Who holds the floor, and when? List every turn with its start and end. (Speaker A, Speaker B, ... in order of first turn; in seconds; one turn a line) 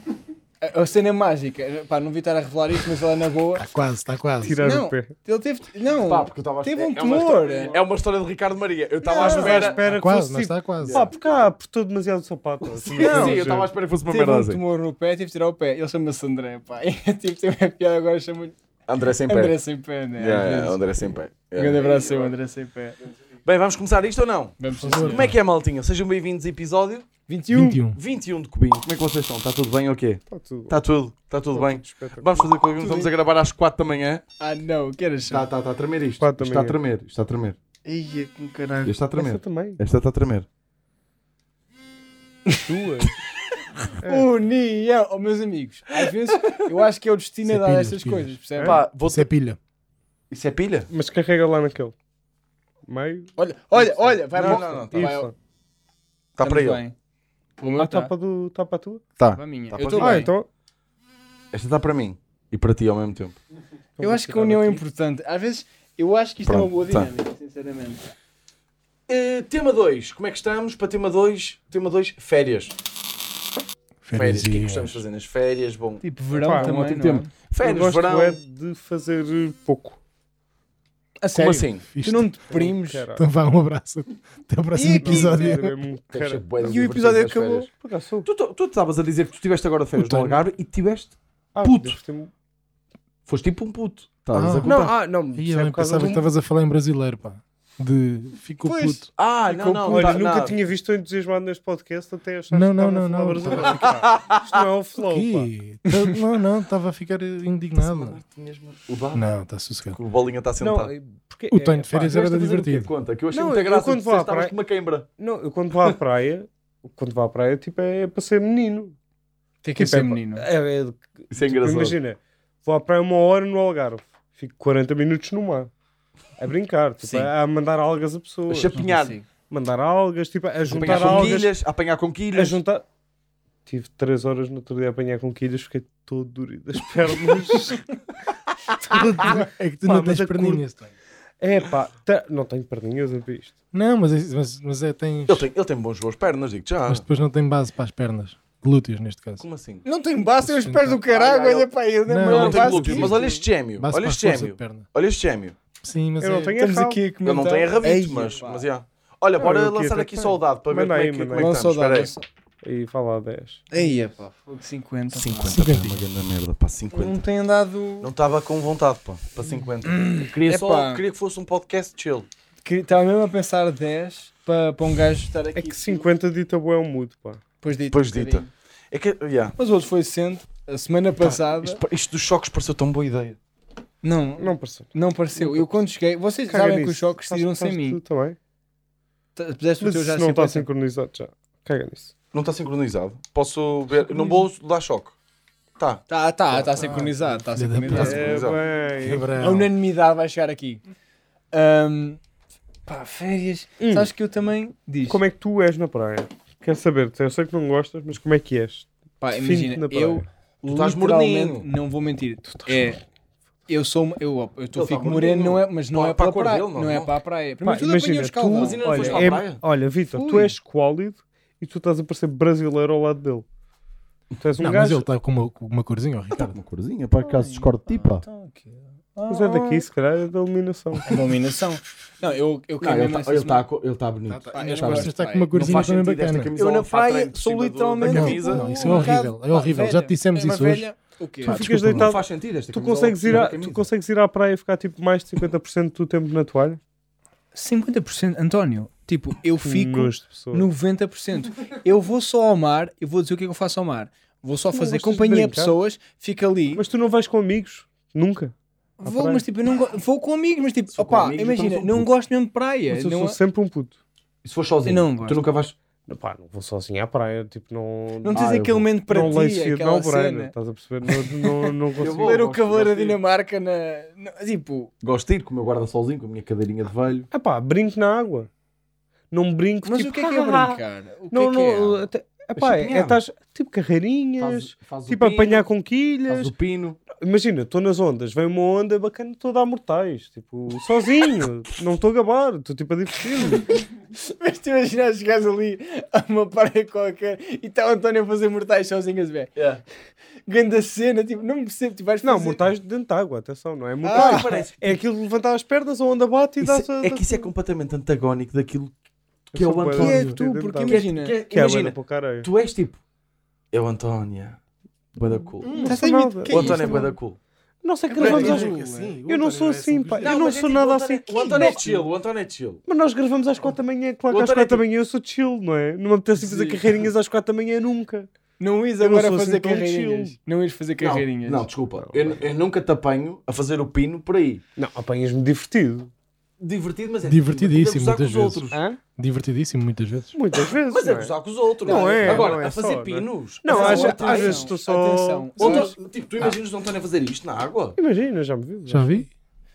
Speaker A: 0.6-3.7
Speaker B: 3.6-4.6
Speaker C: 4.4-5.1
Speaker A: 4.6-7.8
Speaker D: 6.0-9.8
Speaker C: 9.0-13.7
Speaker A: 9.1-9.8
Speaker B: 9.8-11.1
Speaker D: 10.8-11.1
Speaker D: 12.8-14.6
Speaker A: 13.0-13.5
Speaker A: 14.1-18.6
Speaker D: 18.9-19.6
Speaker A: 19.3-23.0
Speaker D: 20.2-22.3
Speaker D: 23.4-27.1
Speaker A: 24.6-25.4
Speaker B: 24.8-25.4
Speaker A: 27.3-27.8
Speaker B: 27.5-28.0
Speaker D: 27.9-34.2
Speaker C: 30.3-30.8
Speaker C: 31.5-32.4
Speaker A: 32.8-33.1
Speaker A: 34.4-35.5
Speaker D: 35.3-37.6
Speaker C: 36.2-36.8
Speaker A: 37.9-39.0
Speaker D: 38.9-40.5
Speaker C: 39.2-39.8
Speaker C: 42.6-43.2
Speaker A: 44.0-48.8
Speaker C: 44.0-44.3
Speaker B: 47.5-49.6
Speaker D: 48.6-49.3
Speaker D: 50.3-50.9
Speaker C: 50.9-52.0
Speaker C: 52.9-55.3
Speaker A: 53.4-55.3
Speaker D: 54.3-55.2
Speaker D: 56.4-56.8
Speaker A: 56.4-57.0
Speaker A: 57.6-58.1
Speaker C: 57.8-59.0
Speaker D: 59.2-60.3
Speaker A: 59.4-60.3
Speaker C: 60.0-60.5
Speaker D: 61.5-63.4
Speaker C: 64.0-64.8
Speaker A: 64.0-68.1
Speaker D: 66.5-67.1
Speaker D: 69.1-72.8
Speaker B: 74.0-75.0
Speaker D: 74.1-78.4
Speaker A: 76.0-77.3
Speaker C: 76.4-76.7
Speaker C: 77.6-80.0
Speaker A: 81.2-83.1
Speaker D: 81.3-81.8
Speaker B: 81.9-82.3
Speaker C: 82.5-83.2
Speaker B: 83.2-85.7
Speaker A: 84.7-85.6
Speaker C: 84.9-86.5
Speaker D: 86.1-87.7
Speaker A: 86.6-87.7
Speaker C: 87.8-88.3
Speaker D: 88.2-92.0
Speaker B: 90.0-90.4
Speaker C: 91.5-92.3
Speaker D: 93.3-94.9
Speaker B: 94.3-94.8
Speaker C: 94.6-96.3
Speaker B: 95.3-99.1
Speaker A: 98.6-100.2
Speaker D: 99.2-100.6
Speaker C: 99.9-105.5
Speaker B: 102.5-103.9
Speaker D: 103.6-104.6
Speaker B: 105.0-108.2
Speaker D: 107.8-109.3
Speaker B: 109.1-110.0
Speaker D: 109.9-110.9
Speaker C: 110.6-112.2
Speaker B: 111.5-112.9
Speaker D: 112.1-115.1
Speaker C: 113.3-114.5
Speaker C: 115.2-119.0
Speaker A: 119.6-120.5
Speaker C: 119.8-125.7
Speaker D: 121.3-122.0
Speaker C: 126.4-128.8
Speaker A: 127.0-127.3
Speaker D: 128.5-129.2
Speaker A: 128.7-129.3
Speaker C: 129.5-131.5
Speaker D: 130.7-132.6
Speaker A: 130.7-131.4
Speaker C: 132.3-132.8
Speaker C: 133.7-137.9
Speaker C: 138.8-140.6
Speaker B: 139.2-140.9
Speaker C: 141.4-143.5
Speaker B: 143.7-145.5
Speaker D: 145.3-147.0
Speaker B: 146.9-149.4
Speaker D: 149.4-149.8
Speaker A: 149.8-153.4
Speaker B: 150.4-151.0
Speaker D: 151.1-151.7
Speaker B: 152.1-154.8
Speaker D: 152.2-155.6
Speaker B: 155.8-156.6
Speaker C: 156.2-157.0
Speaker A: 156.5-158.7
Speaker D: 157.2-162.1
Speaker C: 159.4-161.5
Speaker A: 161.3-162.2
Speaker C: 162.6-163.6
Speaker A: 163.7-165.6
Speaker D: 165.1-167.2
Speaker B: 165.4-166.1
Speaker A: 166.9-168.1
Speaker D: 168.0-172.3
Speaker A: 169.8-171.0
Speaker A: 172.6-176.1
Speaker C: 175.6-177.4
Speaker A: 177.6-178.5
Speaker D: 177.9-179.6
Speaker A: 179.6-181.8
Speaker D: 181.2-183.4
Speaker A: 184.0-188.0
Speaker C: 184.4-185.8
Speaker C: 186.5-188.4
Speaker A: 189.4-190.7
Speaker C: 189.8-192.1
Speaker D: 192.3-195.2
Speaker A: 194.1-194.4
Speaker D: 195.8-197.0
Speaker A: 196.1-198.3
Speaker B: 196.8-198.4
Speaker D: 197.9-198.6
Speaker C: 197.9-199.3
Speaker B: 199.0-199.7
Speaker A: 199.4-200.8
Speaker A: 201.5-202.2
Speaker A: 202.9-205.2
Speaker C: 203.8-204.1
Speaker C: 205.1-210.2
Speaker A: 209.2-213.0
Speaker D: 210.7-211.7
Speaker C: 212.6-212.9
Speaker A: 213.7-219.4
Speaker D: 214.8-217.2
Speaker C: 217.6-223.5
Speaker D: 218.5-219.6
Speaker A: 220.1-220.5
Speaker C: 224.4-225.1
Speaker B: 224.6-226.6
Speaker D: 226.3-228.2
Speaker A: 227.2-229.9
Speaker C: 229.3-231.3
Speaker A: 231.1-233.7
Speaker D: 232.8-239.2
Speaker B: 234.3-236.5
Speaker A: 234.5-235.9
Speaker A: 236.6-241.7
Speaker B: 238.0-240.9
Speaker B: 241.4-242.1
Speaker C: 241.4-246.8
Speaker D: 241.8-243.8
Speaker A: 247.5-256.8
Speaker C: 249.6-250.7
Speaker C: 254.7-255.8
Speaker C: 256.8-258.5
Speaker A: 259.0-263.4
Speaker C: 259.1-259.4
Speaker D: 260.9-262.1
Speaker C: 262.9-264.0
Speaker D: 264.4-265.8
Speaker A: 264.9-265.4
Speaker C: 266.1-268.5
Speaker A: 268.2-270.5
Speaker D: 268.3-268.9
Speaker C: 269.1-272.4
Speaker A: 271.1-274.9
Speaker D: 272.0-273.2
Speaker D: 275.0-277.3
Speaker C: 277.3-278.5
Speaker C: 279.3-286.5
Speaker A: 279.8-282.0
Speaker D: 282.6-283.2
Speaker D: 284.4-285.7
Speaker D: 286.3-287.0
Speaker C: 287.1-293.8
Speaker A: 293.8-299.5
Speaker D: 299.6-299.8
Speaker A: 300.5-302.6
Speaker C: 302.2-307.5
Speaker A: 304.0-304.6
Speaker D: 304.1-305.0
Speaker D: 306.6-308.9
Speaker D: 309.5-313.0
Speaker C: 309.5-312.5
Speaker A: 309.9-311.4
Speaker D: 313.7-314.6
Speaker D: 315.1-317.4
Speaker A: 315.6-317.1
Speaker C: 315.8-317.1
Speaker C: 317.8-321.9
Speaker A: 318.1-319.1
Speaker B: 318.2-320.5
Speaker D: 318.2-318.6
Speaker D: 320.2-322.8
Speaker A: 321.3-322.0
Speaker C: 322.9-328.3
Speaker D: 324.3-324.8
Speaker D: 326.5-326.8
Speaker A: 328.6-331.7
Speaker C: 329.0-330.4
Speaker D: 331.0-334.6
Speaker C: 332.0-332.4
Speaker C: 334.8-336.1
Speaker D: 336.6-338.8
Speaker B: 337.3-338.6
Speaker C: 338.7-339.0
Speaker B: 339.2-340.4
Speaker C: 340.3-345.9
Speaker D: 340.9-344.7
Speaker A: 341.9-342.6
Speaker A: 343.7-346.0
Speaker D: 345.6-348.0
Speaker C: 348.0-349.3
Speaker B: 348.9-349.3